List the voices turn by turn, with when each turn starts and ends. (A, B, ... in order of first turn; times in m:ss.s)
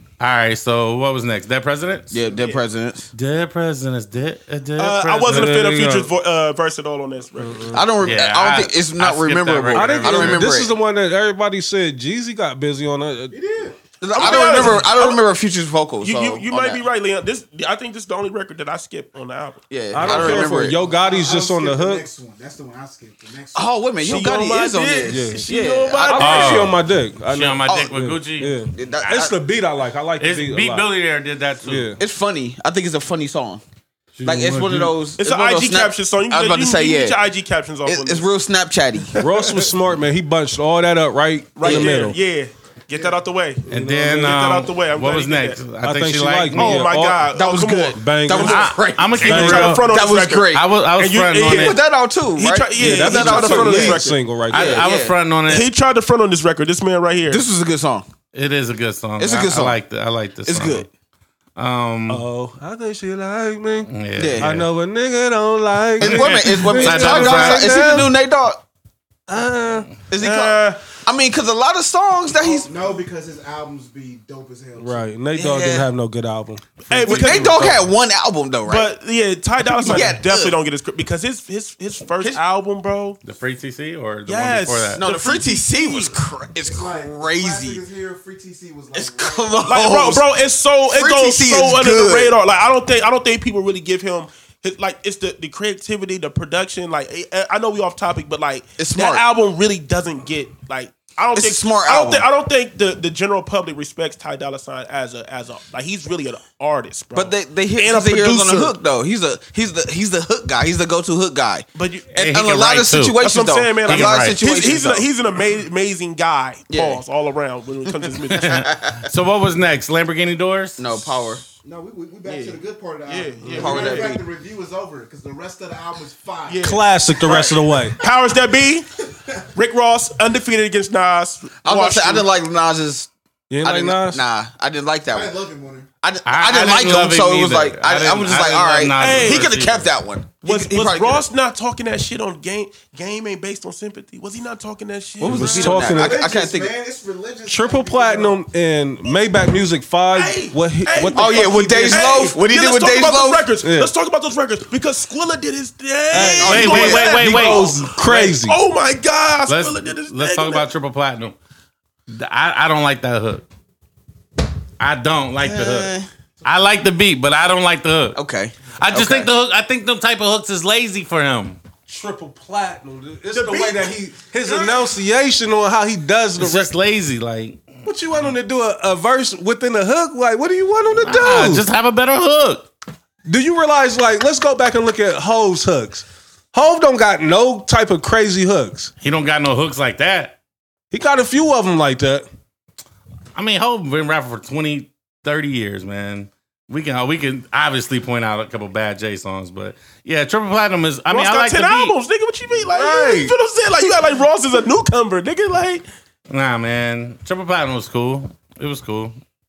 0:00.2-0:02.2 A
0:02.1-0:03.1 B
0:02.3-0:02.6 C
0:03.1-0:05.7 A
0:04.8-0:07.8 C
0:05.3-0:06.1 D
0:07.4-0:07.8 D
0:07.7-0:10.7 B
0:08.0-0:10.6 A
0:09.7-0:13.3 D
0:13.3-0:14.4 E
0:14.0-0:16.8 B
0:14.1-0:15.2 C
0:16.0-0:20.4 C
0:19.7-0:20.8 B
0:19.9-0:22.0 D
0:20.1-0:23.8 E
0:23.5-0:26.5 B
0:24.0-0:26.7 C
0:25.1-0:30.9 D
0:26.2-0:28.6 A
0:28.7-0:29.3 B
0:30.2-0:31.9 A
0:31.6-0:32.0 D
0:32.0-0:33.6 B
0:34.2-0:35.0 A
0:34.2-0:37.2 B
0:35.2-0:38.3 C
0:37.8-0:39.2 B
0:39.2-0:42.2 D
0:41.6-0:43.6 C
0:41.6-0:41.9 B
0:43.7-0:44.4 D
0:43.7-0:46.8 A
0:44.2-0:45.6 C
0:45.8-0:47.3 D
0:46.5-0:48.0 C
0:47.3-0:50.7 B
0:47.9-0:48.7 D
0:48.4-0:49.9 A
0:49.2-0:51.8 C
0:49.2-0:49.8 D
0:50.5-0:51.8 A
0:51.5-0:55.2 B
0:52.4-0:54.2 C
0:52.8-0:54.9 D
0:54.5-0:55.7 A
0:55.5-0:57.4 C
0:57.3-0:58.0 B
0:58.3-1:00.9 A
0:59.2-0:59.8 B
1:00.4-1:00.9 B
1:01.6-1:02.2 A
1:02.1-1:08.1 D
1:03.9-1:04.7 A
1:04.2-1:04.5 B
1:06.0-1:08.6 B
1:06.0-1:07.8 A
1:09.3-1:10.0 D
1:10.1-1:12.7 B
1:10.2-1:10.8 C
1:12.4-1:15.0 E
1:14.8-1:17.8 D
1:15.3-1:15.9 B
1:16.9-1:17.8 C
1:17.0-1:18.9 B
1:17.1-1:17.6 A
1:18.6-1:23.2 C
1:19.8-1:20.6 B
1:23.2-1:25.0 A
1:24.2-1:26.2 C
1:24.9-1:27.8 B
1:26.6-1:29.8 E
1:28.9-1:30.2 B
1:29.6-1:48.7 C
1:30.9-1:32.3 B
1:38.8-1:39.2 B
1:41.3-1:42.2 B
1:47.1-1:55.1 B
1:51.8-1:52.1 C
1:52.1-1:53.2 A
1:53.2-1:58.5 C
1:53.8-1:54.4 A
1:56.7-1:57.0 B
1:58.3-1:59.1 B
1:58.3-2:01.1 A
2:00.8-2:01.4 B
2:01.5-2:06.8 E
2:02.2-2:02.6 B
2:03.1-2:04.1 C
2:03.4-2:03.8 D
2:03.5-2:04.2 B
2:06.5-2:08.9 C
2:06.6-2:08.0 D
2:09.5-2:12.3 C
2:11.6-2:13.1 B
2:13.5-2:14.2 D
2:13.6-2:15.4 B
2:15.1-2:15.9 E
2:16.0-2:21.2 B
2:16.2-2:19.9 A
2:19.0-2:19.5 C
2:20.4-2:25.8 C
2:25.2-2:26.2 D
2:25.2-2:26.7 B
2:25.6-2:28.4 E
2:27.4-2:32.1 D
2:30.1-2:40.7 C
2:31.1-2:33.4 B
2:33.6-2:33.9 D
2:36.1-2:38.6 D
2:36.2-2:37.2 B
2:36.4-2:37.8 A
2:39.5-2:41.4 A
2:42.1-2:43.4 A
2:44.8-2:45.9 A
2:45.4-2:46.1 B
2:46.4-2:51.6 A
2:48.1-2:49.3 B
2:51.9-2:56.7 D
2:53.3-2:54.9 C
2:56.4-2:58.3 A
2:57.8-3:01.6 D
3:01.0-3:02.7 A
3:03.2-3:08.9 D
3:09.0-3:10.4 A
3:10.9-3:12.2 D
3:13.3-3:21.9 A
3:21.1-3:25.8 C
3:22.6-3:23.3 D
3:26.3-3:29.2 A